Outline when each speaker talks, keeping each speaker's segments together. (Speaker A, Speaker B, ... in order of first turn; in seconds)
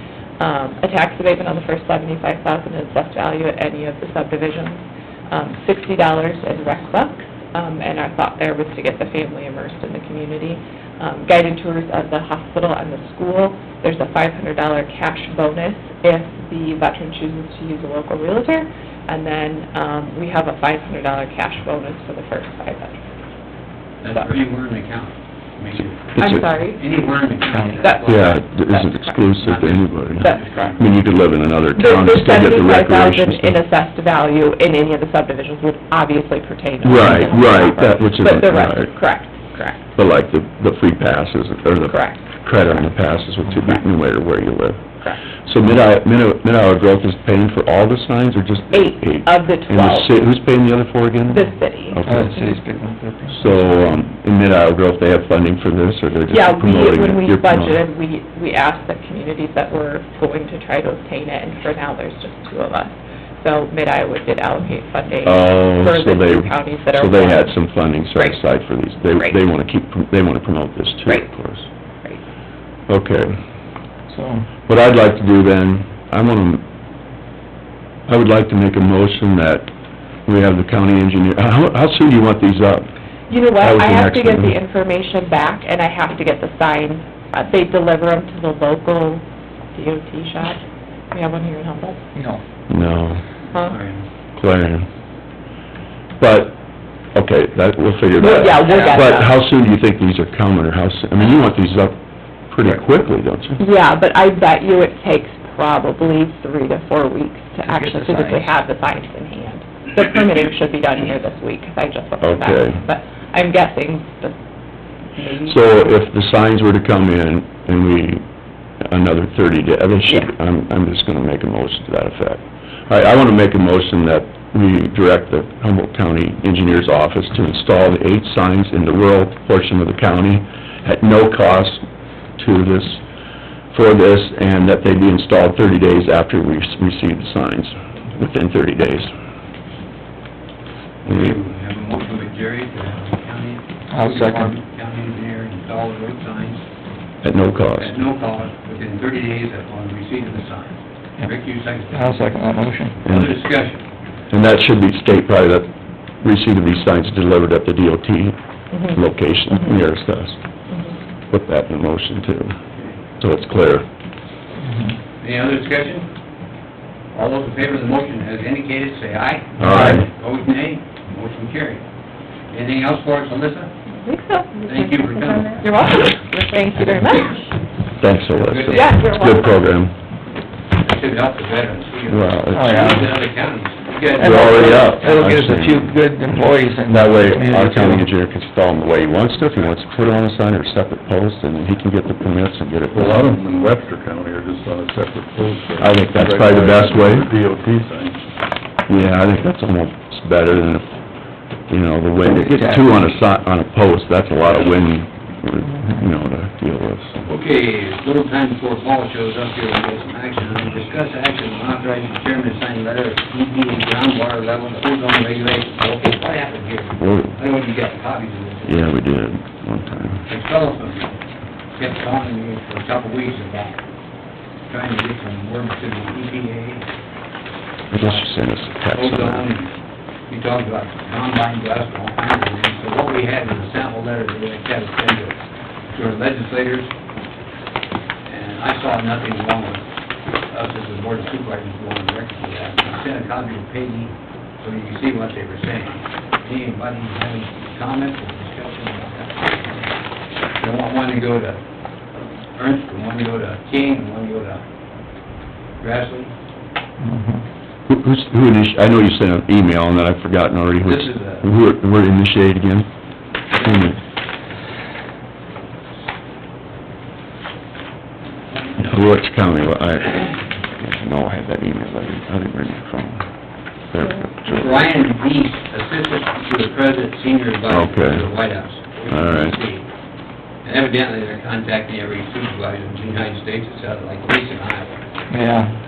Speaker A: 0.4-23.1, 26.2-26.8, 27.8-29.3, 30.2-30.8, 31.8-39.8, 41.9-42.2, 48.7-50.1, 51.3-52.0, 56.3-67.6, 68.1-68.4, 83.3-92.0, 93.5-93.8, 98.2-99.3, 103.6-114.4, 115.2-115.7, 158.7-159.0, 159.5-159.8, 160.7-161.0, 174.0-177.4, 178.7-179.6
Speaker B: 24.0-28.4, 29.4-31.0, 93.7-94.1, 141.1-146.6, 147.8-152.4, 153.0-153.8, 165.2-166.1, 167.1-171.8, 172.5-173.7, 174.7-175.6, 178.3-179.0, 180.8-185.1, 207.3-218.9, 220.3-221.2, 221.8-223.8, 224.7-226.9, 228.0-228.3, 228.9-229.8, 230.3-235.4, 235.9-236.9, 238.3-239.9, 240.5-249.8, 250.6-251.6, 252.6-254.6, 255.8-256.3, 260.8-261.5, 263.6-263.9, 274.4-279.9, 280.6-285.0
Speaker C: 26.2-26.4, 28.1-33.6, 36.8-39.0, 40.0-44.8, 45.4-52.6, 53.3-57.8, 65.2-71.7, 72.9-73.4, 74.7-76.7, 78.1-79.7, 80.3-82.9, 83.6-84.6, 92.7-93.2, 94.3-94.9, 96.2-96.6, 97.1-102.0, 102.5-103.6, 112.2-112.8, 115.4-118.2, 118.9-131.8, 132.4-133.0, 133.7-139.1, 141.1-141.4, 147.2-147.9, 153.1-153.4, 154.3-155.7, 156.2-158.4, 158.9-160.4, 161.3-162.6, 163.2-163.9, 169.6-170.1, 178.0-179.9, 182.1-182.9, 184.2-185.9, 186.9-193.3, 195.8-197.3, 198.9-200.9, 201.7-207.2, 217.0-217.4, 218.7-220.3, 227.9-229.5, 257.9-262.9, 263.6-264.0, 268.8-273.3, 273.9-274.9, 277.7-278.3, 279.1-279.6
Speaker D: 52.0-53.5, 74.1-74.5, 92.2-92.4, 107.7-108.5, 143.9-144.5, 151.9-153.0, 164.6-164.9, 169.6-170.0, 182.5-183.1, 184.2-188.1, 202.3-202.9, 205.6-206.1, 257.0-257.4, 285.3-285.8
Speaker E: 192.9-198.2